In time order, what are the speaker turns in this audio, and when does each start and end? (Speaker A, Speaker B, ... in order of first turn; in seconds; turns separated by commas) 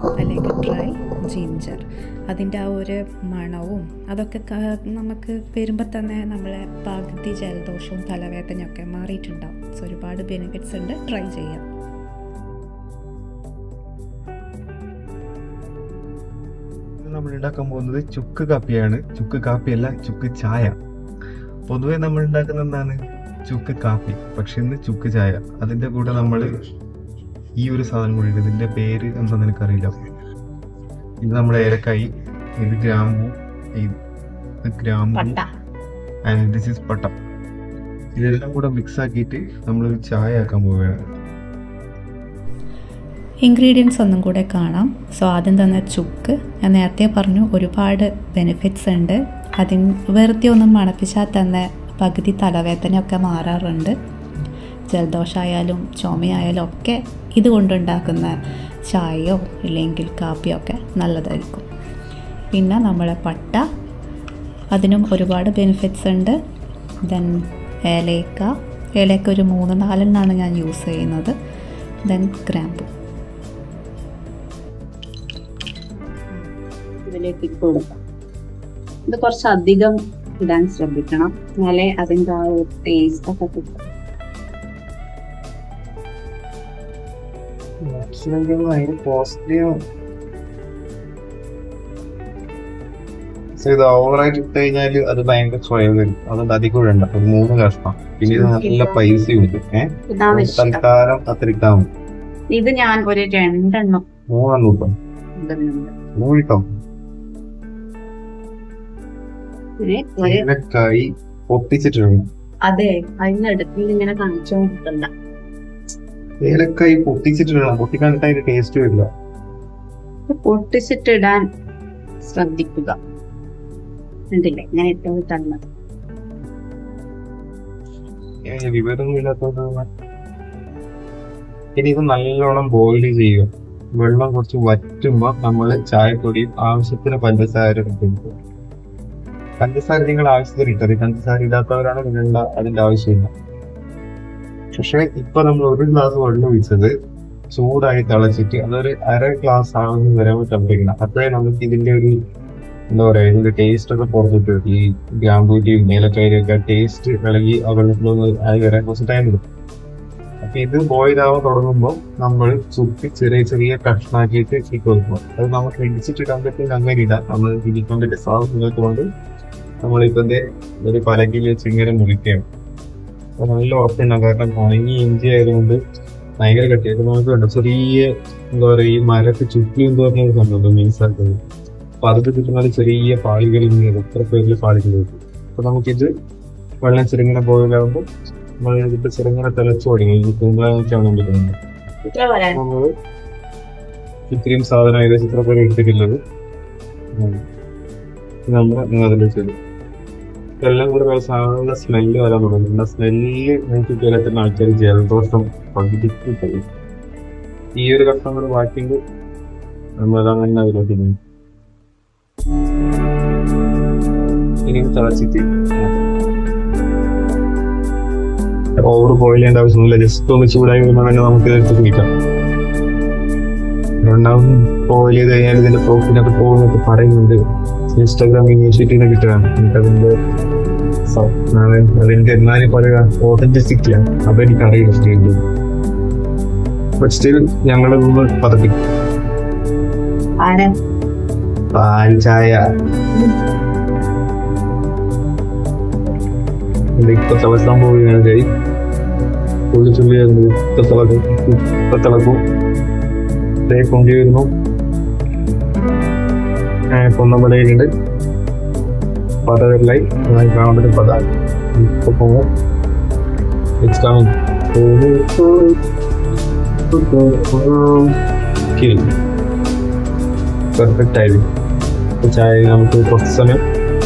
Speaker A: 0.1-11.7, Speaker B: 17.0-20.8, Speaker B: 21.7-26.5, Speaker B: 27.6-29.9, Speaker B: 31.2-34.0, Speaker B: 34.6-35.4, Speaker C: 35.1-35.5, Speaker B: 36.2-37.1, Speaker B: 38.1-41.0, Speaker A: 43.4-54.0, Speaker A: 54.9-61.7, Speaker A: 62.5-63.6, Speaker A: 64.7-66.4, Speaker A: 67.1-71.3, Speaker A: 72.0-72.9, Speaker C: 77.0-78.0, Speaker C: 79.0-83.8, Speaker B: 87.8-89.8, Speaker B: 93.6-101.9, Speaker C: 98.3-99.0, Speaker C: 100.1-100.8, Speaker C: 102.5-104.0, Speaker B: 104.3-105.0, Speaker C: 105.4-105.9, Speaker B: 106.2-106.6, Speaker C: 109.8-110.5, Speaker B: 110.2-112.2, Speaker C: 112.6-115.1, Speaker B: 116.4-119.1, Speaker C: 120.3-121.5, Speaker C: 122.2-123.0, Speaker C: 124.3-125.6, Speaker B: 128.4-129.9, Speaker B: 131.8-138.3, Speaker B: 139.6-143.3, Speaker B: 144.7-146.9, Speaker B: 147.5-152.2, Speaker B: 152.9-159.4, Speaker B: 160.4-169.1, Speaker B: 169.8-172.4, Speaker B: 173.4-175.8, Speaker B: 176.4-181.4, Speaker B: 182.0-186.1, Speaker B: 186.8-188.1, Speaker B: 188.6-191.6, Speaker C: 192.1-192.6, Speaker B: 192.5-192.9, Speaker B: 194.3-196.2, Speaker B: 197.1-197.4, Speaker B: 198.5-199.6, Speaker B: 200.6-206.7, Speaker B: 207.7-209.0, Speaker B: 210.0-211.2, Speaker B: 214.6-216.0, Speaker B: 218.8-222.1, Speaker B: 224.0-227.4, Speaker B: 227.9-230.1, Speaker B: 231.1-235.4, Speaker B: 237.0-238.8, Speaker C: 240.4-240.7, Speaker B: 241.7-242.6, Speaker B: 246.9-248.5, Speaker B: 249.7-252.4, Speaker B: 253.7-254.5, Speaker B: 256.9-257.9, Speaker B: 259.4-262.5, Speaker B: 263.8-265.8, Speaker B: 266.9-268.1, Speaker B: 268.7-269.1, Speaker B: 270.7-271.5, Speaker B: 272.2-273.6